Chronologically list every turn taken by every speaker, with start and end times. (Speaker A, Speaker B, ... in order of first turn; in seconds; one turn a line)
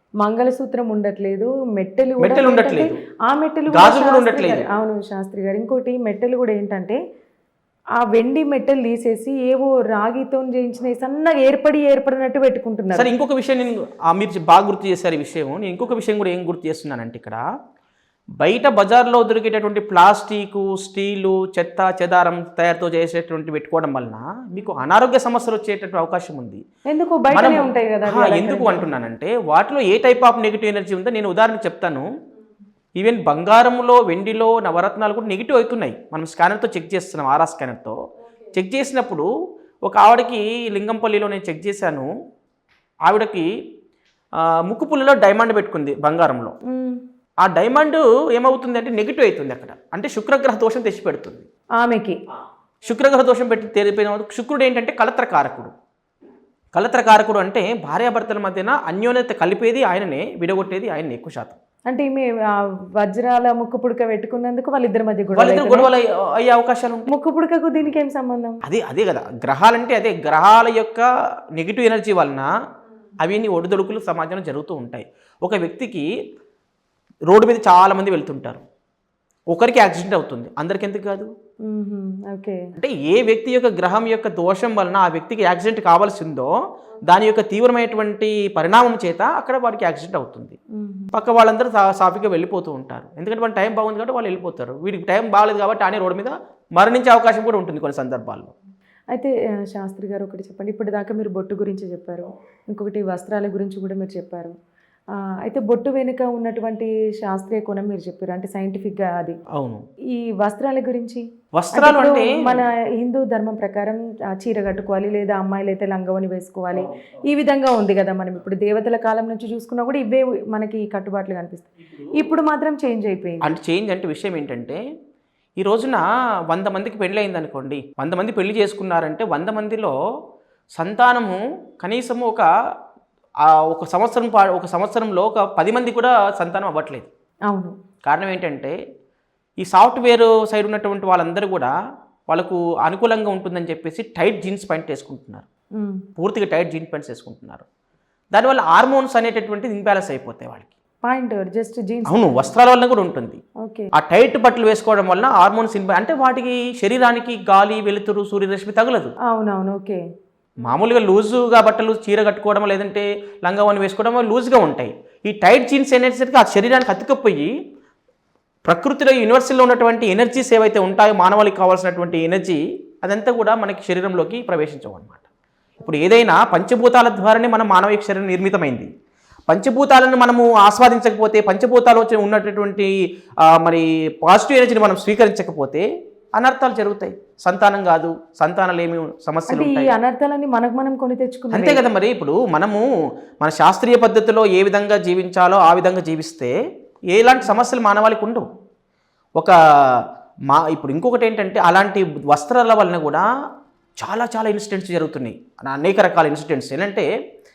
Speaker A: 0.2-7.0
Speaker B: 2.2-3.0
Speaker B: 3.7-4.7
Speaker A: 8.0-13.1
Speaker B: 12.9-17.4
Speaker B: 18.4-26.6
Speaker A: 26.9-28.9
Speaker B: 27.3-32.1
Speaker B: 33.0-38.0
Speaker B: 38.5-39.3
Speaker B: 39.8-42.1
Speaker B: 43.0-43.5
Speaker B: 44.4-46.5
Speaker A: 46.7-47.0
Speaker B: 47.4-51.4
Speaker A: 51.8-52.2
Speaker B: 52.8-55.7
Speaker B: 56.7-61.6
Speaker A: 61.9-65.9
Speaker B: 65.3-67.1
Speaker A: 67.1-68.6
Speaker B: 68.6-72.5
Speaker B: 73.2-76.1
Speaker B: 77.3-78.6
Speaker B: 79.5-81.3
Speaker A: 81.7-82.6
Speaker B: 82.8-86.5
Speaker B: 87.0-90.5
Speaker A: 90.8-91.1
Speaker B: 91.1-98.5
Speaker A: 99.1-104.5
Speaker A: 105.4-109.4
Speaker B: 109.5-109.8
Speaker A: 110.1-123.5
Speaker B: 111.5-112.6
Speaker B: 123.4-124.8
Speaker B: 125.6-129.9
Speaker B: 130.8-132.5
Speaker B: 133.4-137.1
Speaker A: 137.5-137.7
Speaker B: 138.0-138.8
Speaker B: 139.6-141.7
Speaker B: 142.3-145.4
Speaker A: 145.8-146.0
Speaker B: 146.2-147.6
Speaker B: 148.3-150.7
Speaker A: 151.0-152.3
Speaker B: 152.1-153.4
Speaker A: 153.6-153.9
Speaker B: 153.9-159.1
Speaker A: 159.3-160.0
Speaker B: 160.6-167.5
Speaker B: 168.6-175.2
Speaker B: 175.8-178.9
Speaker B: 179.5-182.9
Speaker B: 183.5-189.9
Speaker A: 189.5-191.8
Speaker B: 191.5-192.8
Speaker B: 193.4-196.5
Speaker B: 197.1-198.4
Speaker B: 200.5-203.2
Speaker B: 204.0-207.1